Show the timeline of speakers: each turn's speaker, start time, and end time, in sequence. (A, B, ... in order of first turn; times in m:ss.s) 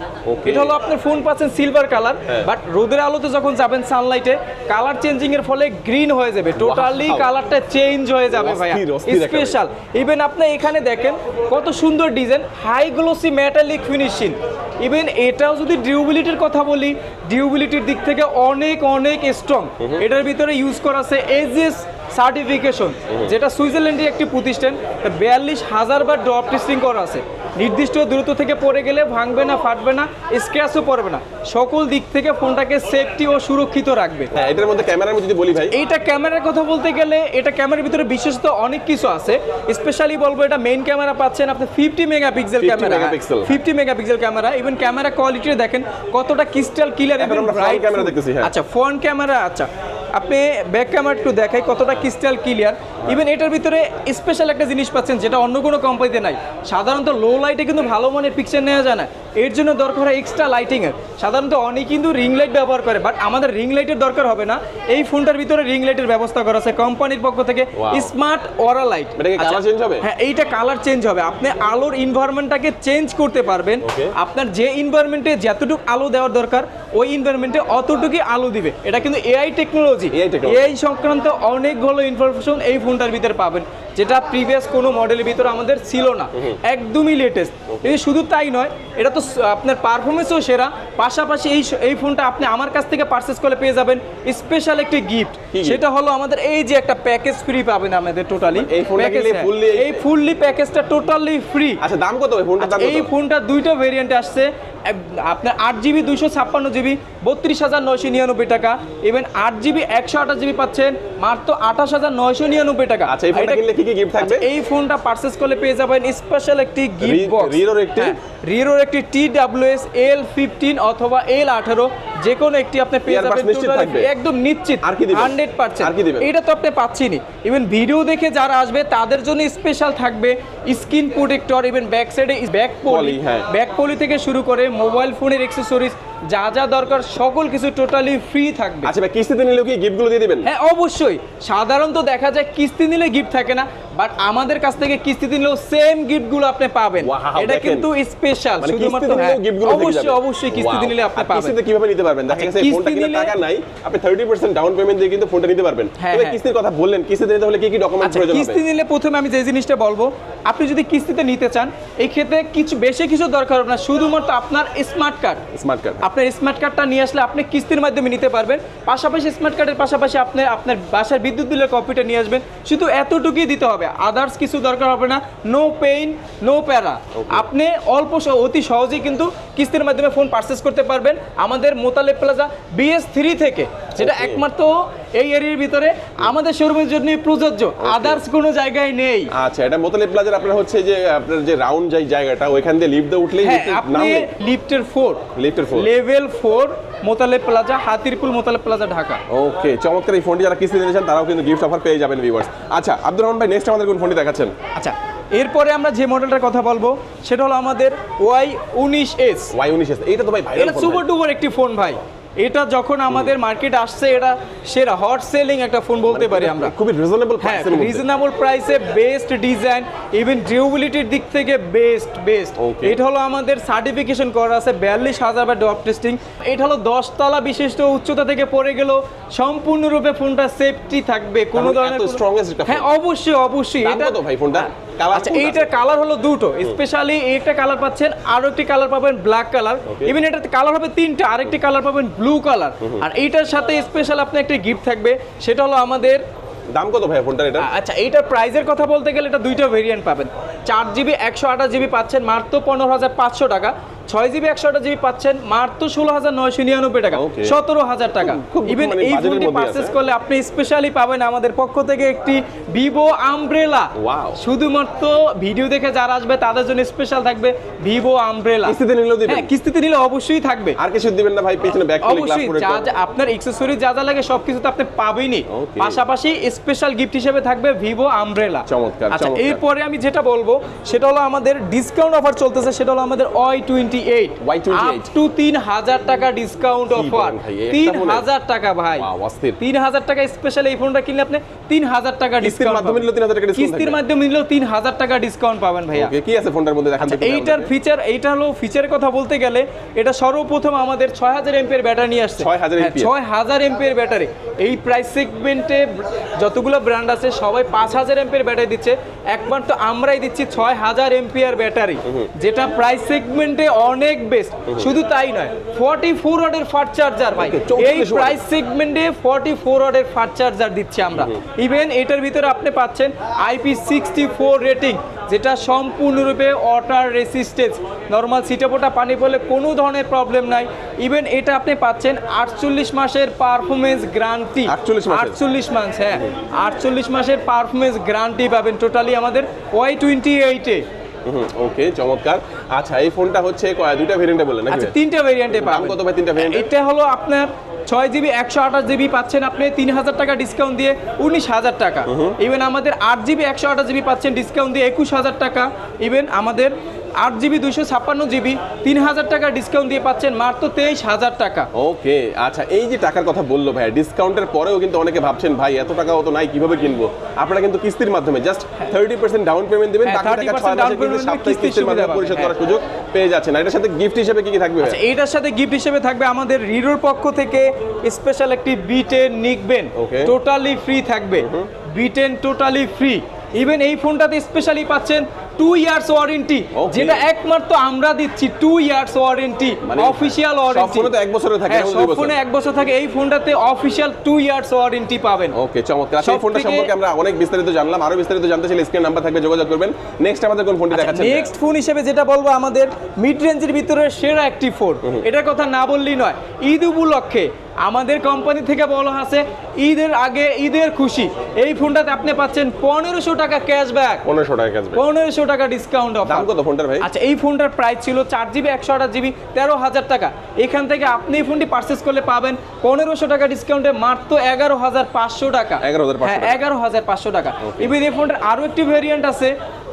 0:00.3-0:00.8 A
0:00.4-0:34.3 B
0:06.6-0:07.3 A
0:08.3-0:09.6 A
0:19.8-0:20.0 A
0:23.1-0:23.3 A
0:34.3-0:35.8 A
0:35.7-1:41.8 B
0:42.6-0:43.6 A
0:47.2-0:48.5 A
1:07.8-1:08.1 A
1:09.2-1:10.1 A
1:13.8-1:14.1 A
1:20.1-1:20.7 A
1:27.7-1:28.0 A
1:35.5-1:35.8 A
1:38.5-1:40.0 A
1:41.8-1:43.1 A
1:42.6-1:53.6 B
1:53.1-1:54.5 A
1:54.2-2:18.9 B
1:57.0-1:58.2 A
2:03.1-2:04.1 A
2:04.8-2:06.3 A
2:12.9-2:13.5 A
2:18.8-2:20.5 A
2:20.4-2:31.6 B
2:27.0-2:27.9 A
2:28.6-2:38.6 A
2:32.3-2:33.4 B
2:36.0-2:36.4 B
2:38.0-2:45.5 B
2:45.5-2:46.1 A
2:46.0-3:09.3 B
2:57.2-2:57.5 A
3:04.0-3:04.4 A
3:07.8-3:08.2 A
3:09.3-3:14.3 A
3:13.4-3:19.2 B
3:15.4-3:15.9 A
3:19.3-3:24.5 A
3:24.8-3:29.5 B
3:29.5-3:31.0 A
3:30.6-3:36.7 B
3:36.1-3:38.0 A
3:37.4-4:06.2 B
3:42.6-3:43.0 A
3:51.6-3:52.9 A
3:53.8-3:55.7 A
3:59.9-4:00.2 A
4:06.7-4:07.7 A
4:07.6-4:30.8 B
4:17.1-4:17.6 A
4:18.2-4:20.0 A
4:24.0-4:24.4 A
4:28.6-4:29.5 A
4:30.8-4:32.9 A
4:32.0-4:49.1 B
4:35.5-4:36.0 A
4:38.7-4:39.6 A
4:44.4-4:45.1 A
4:46.9-4:48.3 A
4:49.0-4:49.6 A
4:49.6-4:56.1 B
4:52.4-4:54.0 A
4:55.9-4:57.7 A
4:57.0-5:40.8 B
5:02.4-5:03.1 A
5:14.7-5:15.0 A
5:17.4-5:18.4 A
5:21.1-5:21.4 A
5:34.7-5:35.4 A
5:41.2-5:45.0 A
5:44.7-6:01.7 B
5:45.5-5:46.7 A
5:52.1-5:52.4 A
6:01.7-6:15.0 A
6:10.0-6:12.5 B
6:14.8-6:31.1 B
6:20.0-6:20.3 A
6:21.4-6:21.7 A
6:26.7-6:27.3 A
6:29.8-6:32.4 A
6:31.7-6:35.6 B
6:35.5-6:41.5 A
6:36.2-6:36.9 B
6:40.9-6:54.3 B
6:54.2-6:55.0 A
6:54.9-6:56.5 B
6:56.2-6:57.1 A
6:57.0-7:09.6 B
7:05.8-7:06.6 A
7:07.6-7:08.0 A